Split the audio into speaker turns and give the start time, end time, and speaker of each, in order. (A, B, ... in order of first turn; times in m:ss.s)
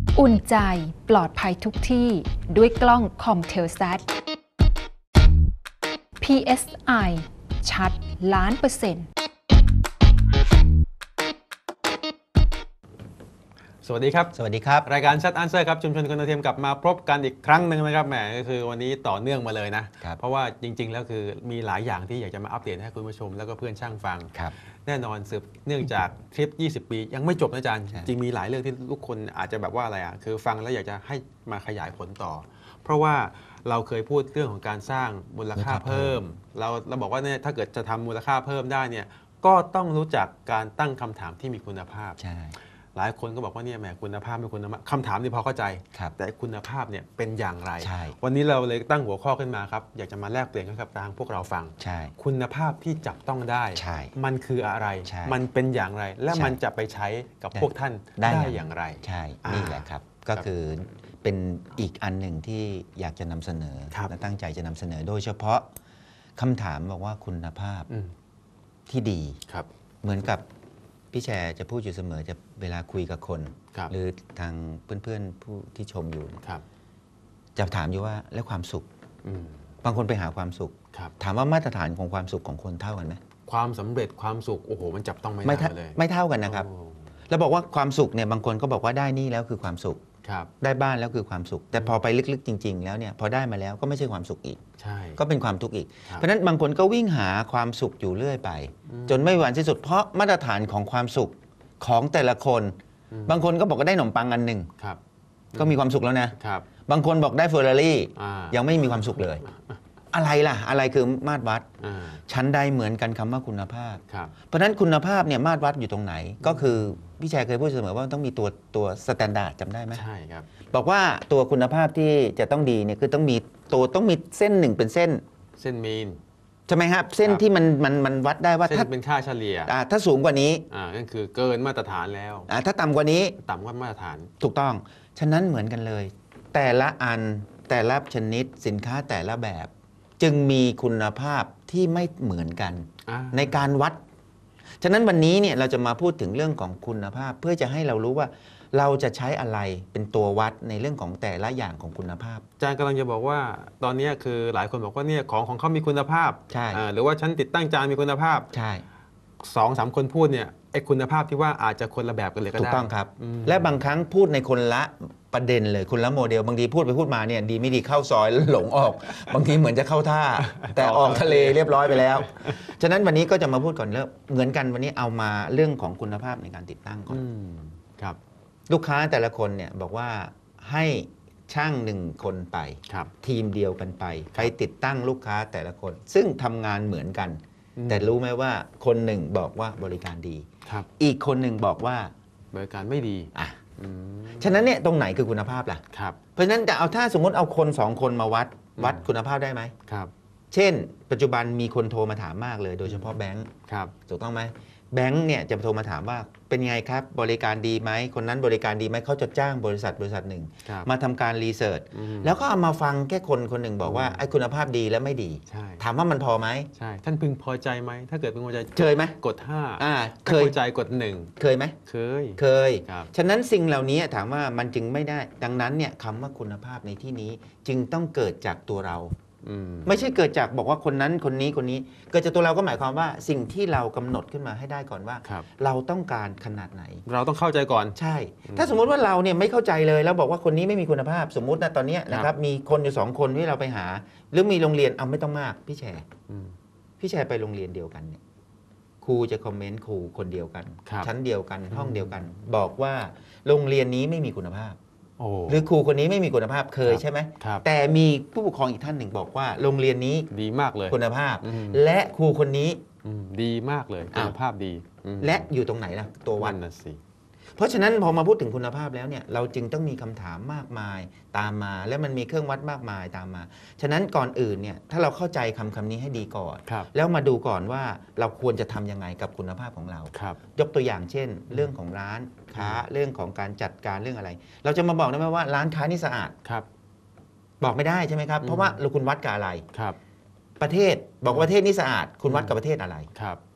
0:00.2-0:04.1 A
0:06.2-0:09.1 A
0:13.8-0:24.3 B
0:14.3-0:14.9 C
0:24.9-0:42.2 B
0:35.6-0:36.2 C
0:42.2-0:42.5 C
0:43.0-1:00.4 B
0:47.8-0:48.2 C
0:51.8-0:52.1 C
0:53.8-0:54.1 C
0:55.0-0:55.4 C
0:56.3-0:56.6 C
0:57.6-1:05.7 C
1:06.4-1:07.9 C
1:08.9-1:09.4 C
1:10.0-1:10.4 C
1:11.1-1:16.4 C
1:17.6-1:18.9 C
1:19.2-1:19.6 B
1:19.8-1:23.2 C
1:23.5-1:27.0 B
1:25.4-1:26.7 C
1:27.3-1:30.0 C
1:30.2-1:30.5 B
1:30.6-1:34.6 C
1:34.8-1:35.2 B
1:35.2-1:44.7 C
1:38.9-1:39.3 B
1:43.1-1:43.4 B
1:45.6-1:46.3 C
1:46.4-1:46.7 B
1:46.9-1:49.4 C
1:48.2-1:48.6 B
1:50.1-1:51.7 C
1:51.8-1:52.2 B
1:52.3-2:00.0 C
1:56.4-1:56.8 B
1:59.9-2:00.5 B
2:00.7-2:05.2 C
2:05.6-2:06.2 B
2:06.7-2:08.9 C
2:08.7-2:09.7 B
2:09.7-2:10.6 C
2:10.7-2:12.5 B
2:12.5-2:13.4 C
2:13.4-2:14.3 B
2:14.4-2:24.0 C
2:23.1-2:23.6 B
2:24.8-2:32.4 C
2:32.6-2:38.5 B
2:36.5-2:36.8 C
2:38.5-2:38.8 C
2:39.4-2:43.8 B
2:42.5-2:57.2 C
2:50.5-2:52.6 B
2:57.1-2:58.2 B
2:58.7-3:12.1 C
3:02.9-3:03.1 B
3:07.8-3:08.1 B
3:12.5-3:14.7 B
3:14.4-3:15.8 C
3:15.9-3:16.2 B
3:16.4-3:19.7 C
3:18.8-3:19.0 B
3:19.9-3:20.1 B
3:20.5-3:23.5 C
3:23.7-3:23.9 B
3:24.1-3:36.7 C
3:31.9-3:32.4 B
3:33.8-3:34.3 B
3:35.5-3:35.8 B
3:36.8-3:41.3 B
3:38.8-3:39.2 C
3:39.8-3:40.6 C
3:41.4-3:41.8 C
3:41.9-3:43.1 B
3:42.4-3:49.1 C
3:49.4-3:50.0 B
3:49.8-3:57.0 C
3:57.1-3:58.8 B
3:58.0-4:06.1 C
4:06.3-4:06.6 B
4:07.0-4:08.2 C
4:09.0-4:14.8 C
4:10.9-4:11.1 B
4:11.7-4:12.2 B
4:15.2-4:15.7 B
4:15.5-4:20.3 C
4:16.9-4:17.6 B
4:20.3-4:21.8 B
4:20.9-4:22.8 C
4:23.0-4:25.5 B
4:25.2-4:26.6 C
4:26.4-4:27.0 B
4:27.6-4:46.4 C
4:40.1-4:40.4 B
4:42.6-4:42.8 B
4:47.6-4:49.6 C
4:48.4-4:48.8 B
4:50.6-4:53.1 C
4:52.3-4:52.6 B
4:53.1-4:53.4 B